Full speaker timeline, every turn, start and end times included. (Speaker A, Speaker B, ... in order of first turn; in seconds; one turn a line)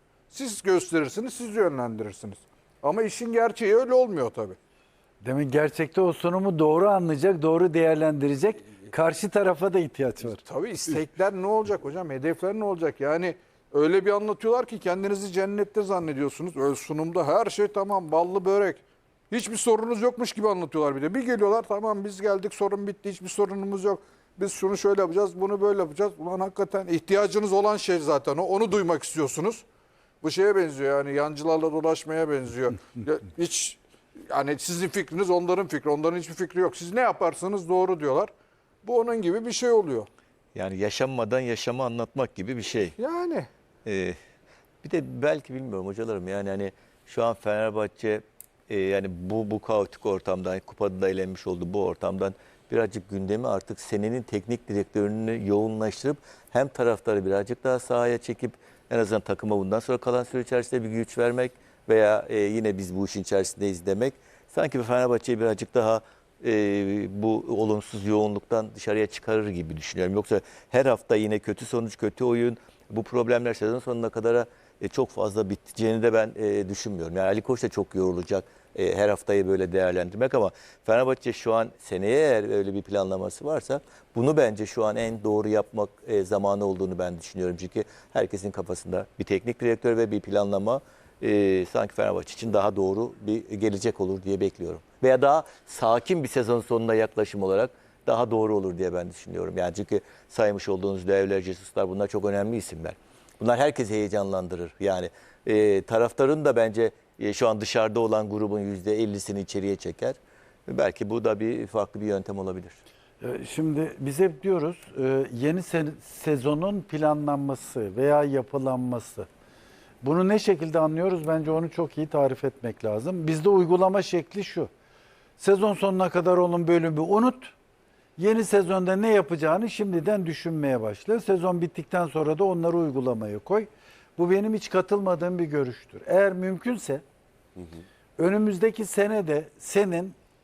Speaker A: 0.3-4.6
Speaker B: 5.2-10.4
Speaker A: 10.2-29.6
Speaker A: 30.2-38.3
Speaker A: 38.8-40.1
Speaker C: 40.5-42.9
Speaker A: 43.0-43.5
Speaker C: 43.8-44.1
Speaker C: 44.8-112.8
Speaker B: 113.2-119.3
Speaker B: 120.0-124.7
Speaker B: 125.4-127.5
Speaker B: 128.2-137.0
Speaker B: 138.2-140.2